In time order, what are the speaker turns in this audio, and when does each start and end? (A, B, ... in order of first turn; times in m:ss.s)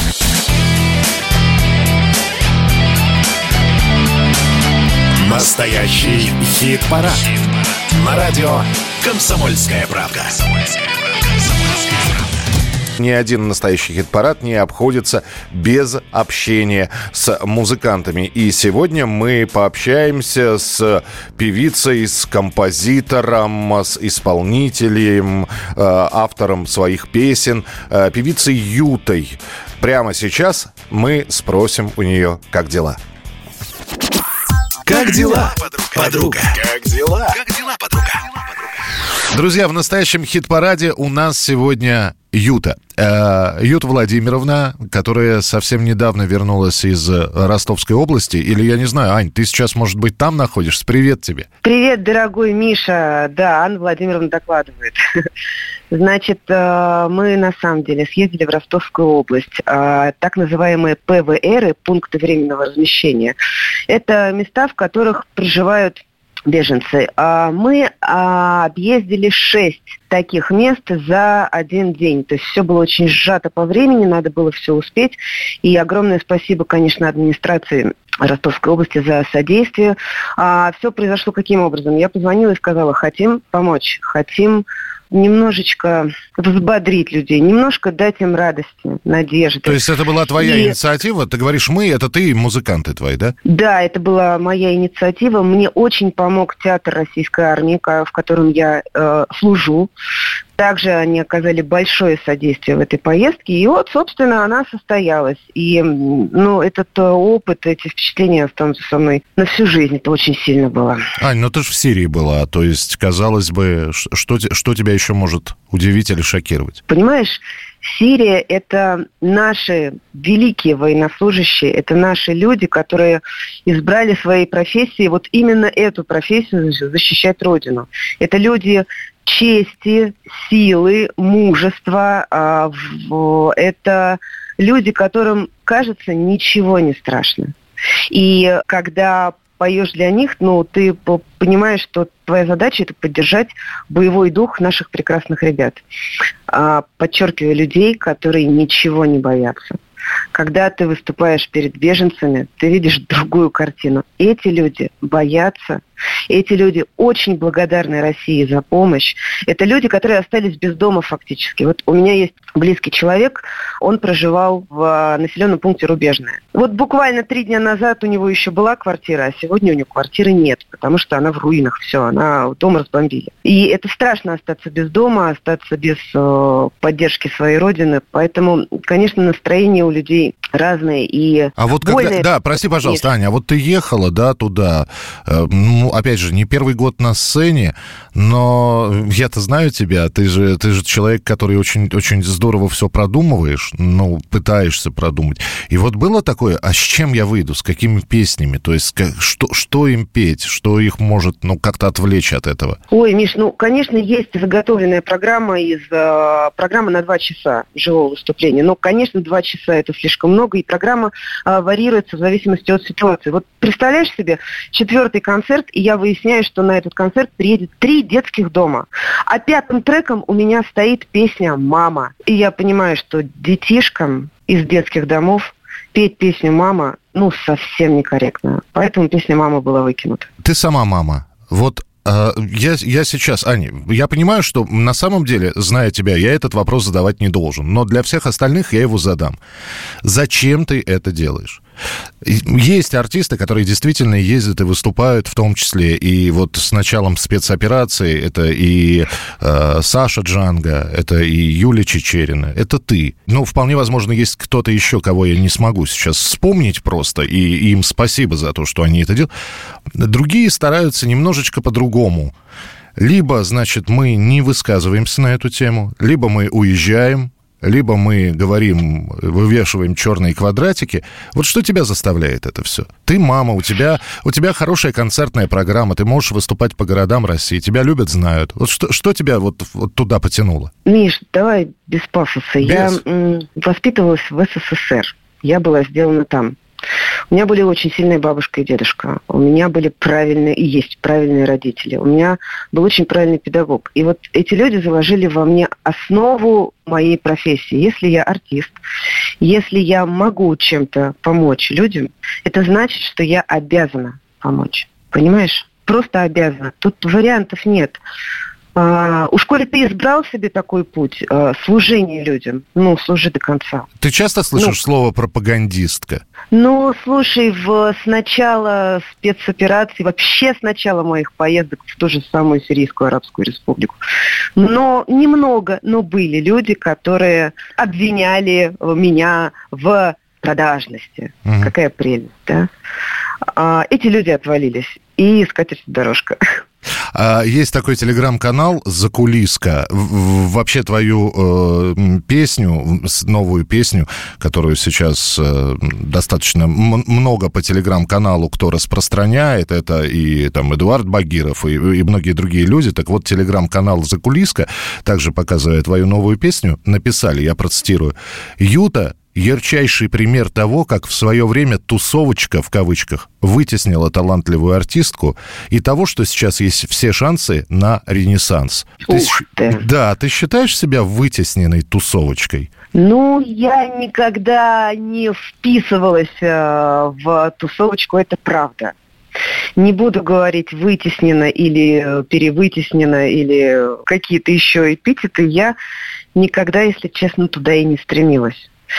0:05.1-0:10.8 A
0:13.0-0:33.0 B
0:34.9-0:38.2 A
0:39.3-0:51.5 B
0:51.6-0:55.0 C
0:55.9-1:03.4 C
1:03.9-1:29.8 C
1:29.6-1:33.4 B
1:30.4-1:30.8 C
1:33.5-1:39.9 C
1:40.6-1:51.0 C
1:51.2-1:56.8 B
1:56.9-2:17.5 C
2:18.1-2:25.8 C
2:26.5-2:29.8 C
2:30.3-3:03.1 C
3:01.6-3:22.8 B
3:22.9-3:50.3 C
3:50.4-3:59.4 B
4:00.0-4:01.6 B
4:02.2-4:19.3 B
4:20.0-4:22.3 B
4:23.0-4:40.7 B
4:40.8-4:46.6 C
4:42.6-4:43.0 B
4:47.3-4:58.8 C
4:59.4-5:08.0 C
5:08.8-5:13.9 C
5:14.0-5:16.2 B
5:16.5-5:24.0 C
5:24.6-5:32.7 C
5:31.4-5:31.7 B
5:33.5-5:36.4 C
5:37.2-6:12.7 B
6:09.1-6:09.8 C
6:12.9-6:19.0 C
6:19.8-6:25.8 C
6:26.4-6:28.7 C